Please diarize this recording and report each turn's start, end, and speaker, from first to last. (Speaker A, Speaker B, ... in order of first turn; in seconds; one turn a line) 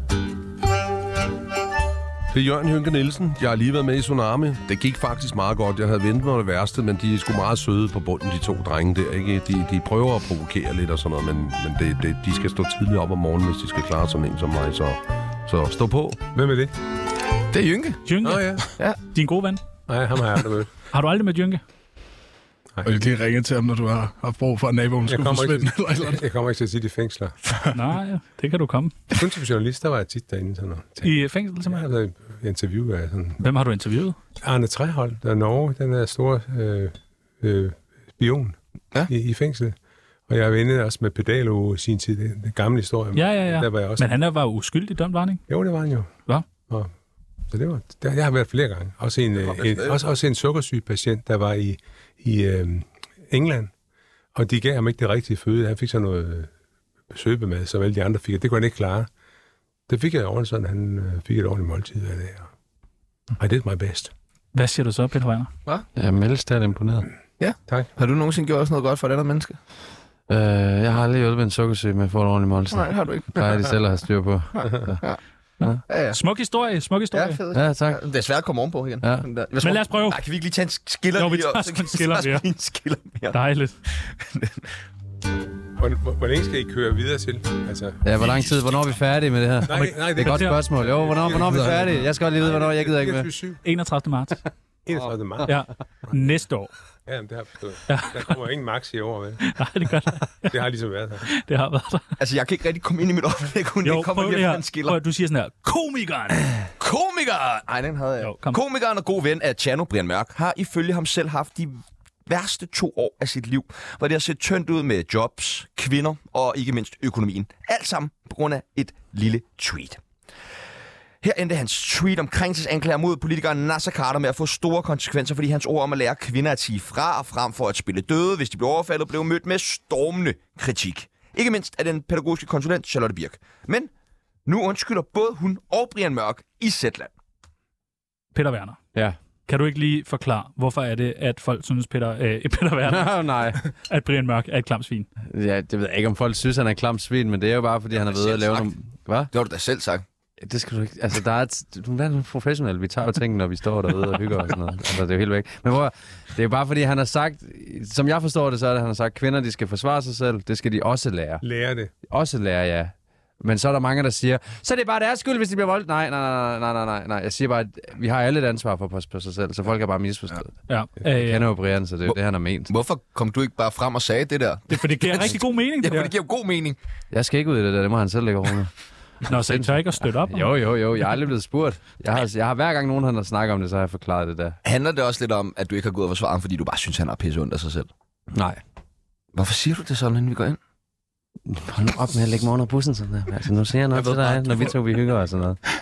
Speaker A: 2.3-16.2
Speaker B: 16.3-16.7
Speaker C: 17.5-18.0
Speaker D: 18.1-19.6
Speaker B: 18.2-18.7
Speaker B: 19.9-20.7
Speaker D: 20.9-21.6
Speaker E: 22.8-26.2
Speaker B: 25.1-27.4
Speaker D: 27.7-29.0
Speaker B: 29.1-33.4
Speaker D: 31.0-31.9
Speaker D: 33.4-34.1
Speaker B: 34.4-38.5
Speaker B: 39.1-39.8
Speaker B: 40.3-44.1
Speaker D: 43.1-45.4
Speaker B: 45.5-46.1
Speaker B: 47.5-53.7
Speaker C: 49.4-50.0
Speaker B: 54.3-56.5
Speaker B: 57.1-59.1
Speaker B: 59.9-62.5
Speaker B: 63.4-64.1
Speaker D: 64.5-65.5
Speaker F: 66.0-67.1
Speaker C: 67.4-69.6
Speaker F: 70.3-75.0
Speaker C: 72.7-73.7
Speaker C: 74.5-75.2
Speaker C: 75.9-76.2
Speaker D: 76.1-77.4
Speaker C: 77.1-83.4
Speaker F: 77.5-78.0
Speaker D: 79.6-80.2
Speaker D: 81.1-82.5
Speaker D: 83.3-83.8
Speaker C: 83.9-84.7
Speaker B: 85.8-88.0
Speaker F: 88.0-93.3
Speaker B: 89.6-93.6
Speaker D: 89.7-90.6
Speaker E: 91.3-91.9
Speaker D: 93.6-94.4
Speaker B: 94.8-95.5
Speaker D: 95.5-96.7
Speaker B: 97.1-99.4
Speaker D: 97.9-98.3
Speaker D: 99.4-100.5
Speaker B: 100.5-101.2
Speaker D: 101.3-102.0
Speaker C: 102.2-105.0
Speaker D: 103.8-106.5
Speaker C: 106.8-120.0
Speaker D: 108.2-108.6
Speaker C: 121.2-133.9
Speaker C: 134.4-137.1
Speaker D: 138.3-138.8
Speaker D: 139.5-145.1
Speaker F: 142.9-143.6
Speaker F: 145.2-149.3
Speaker C: 148.0-148.7
Speaker C: 149.3-150.0
Speaker F: 150.4-161.4
Speaker B: 161.4-161.9
Speaker F: 162.1-172.7
Speaker D: 170.7-171.4
Speaker C: 172.7-176.8
Speaker D: 174.7-176.1
Speaker F: 177.1-178.7
Speaker F: 179.3-184.6
Speaker D: 179.3-180.6
Speaker C: 184.6-187.9
Speaker F: 188.3-188.6
Speaker C: 189.3-190.6
Speaker F: 191.4-195.6
Speaker E: 194.0-194.6